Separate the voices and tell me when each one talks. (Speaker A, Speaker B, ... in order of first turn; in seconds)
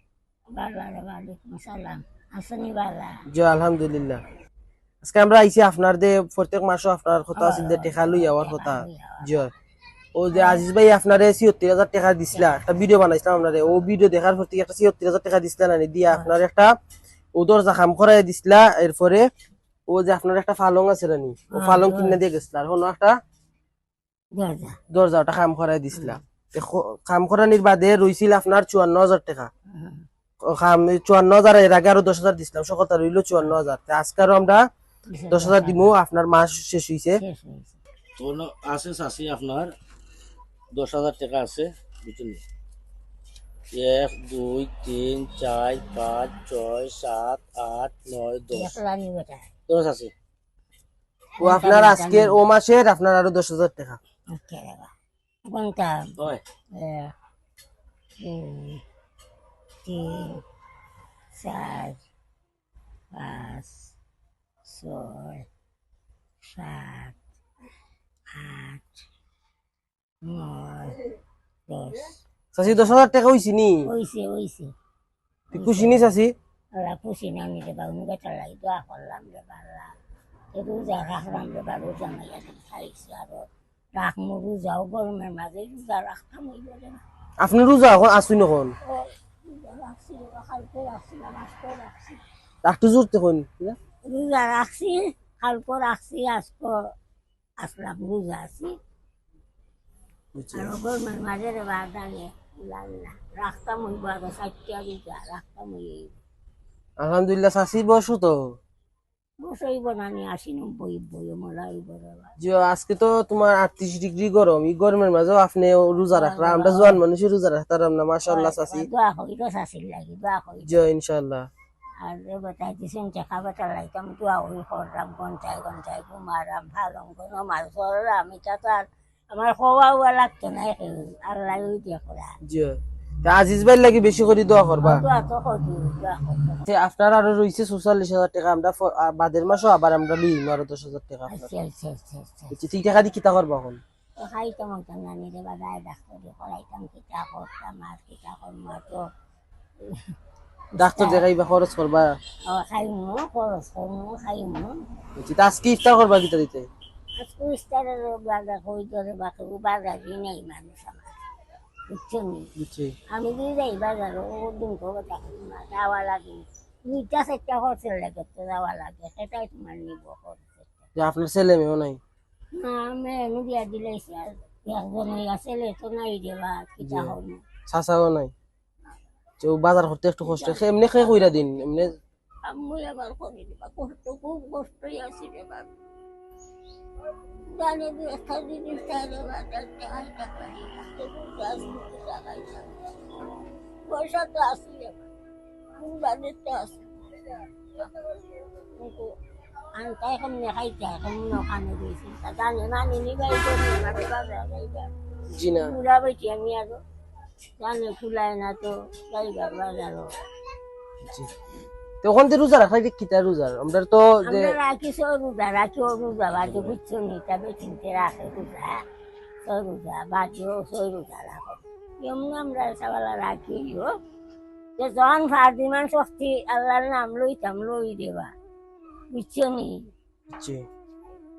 Speaker A: 0.5-3.2, 7.3-9.4, 10.3-10.6, 12.3-12.8, 21.5-22.2, 24.3-24.8, 25.9-26.2, 29.7-30.1, 35.1-35.9, 37.2-37.8, 48.5-49.5, 51.4-52.4, 54.3-54.9, 55.5-56.1, 56.7-57.1, 58.2-58.8, 59.8-60.4, 61.3-62.0, 63.1-63.9, 64.6-65.5, 66.5-67.2, 68.3-69.0, 70.2-71.1, 71.7-72.2, 73.8-74.7, 75.5-76.2, 76.8-80.0, 80.5-87.0, 88.8-92.2, 94.1-96.8, 97.6-98.8, 100.5-106.1, 109.4-112.3, 116.1-117.0, 118.3-120.7, 122.0-132.3, 134.8-136.7, 141.3-142.5, 144.2-149.1, 149.8-150.2, 150.8-151.2, 152.5-154.8, 157.2-161.2, 161.9-162.5, 163.1-170.8, 172.5-177.4, 180.2-181.5, 182.4-185.8, 187.5-195.1, 195.8-199.1, 199.8-204.9, 205.6-206.8, 207.6-210.1, 214.2-218.8, 219.4-223.9, 224.8-228.3, 229.1-229.9
Speaker B: 3.3-4.2, 5.0-9.5, 10.1-16.7, 17.3-19.3, 19.9-23.2, 24.9-29.5, 30.4-34.6, 35.3-37.2, 51.4-54.0, 72.5-73.9, 75.5-76.3, 87.4-88.7, 92.6-93.8, 100.3-100.8, 107.0-108.6, 112.4-118.9, 120.6-121.5, 132.4-135.0, 136.7-141.4, 142.5-143.8, 150.8-152.2, 155.2-156.7, 162.6-162.9, 170.9-172.0, 176.8-177.2, 177.7-178.3, 179.4-181.9, 205.3-205.8, 212.0-214.5, 216.5-216.7, 230.3-230.6
Speaker C: 38.2-39.7, 40.7-42.4, 43.7-48.8, 49.7-50.1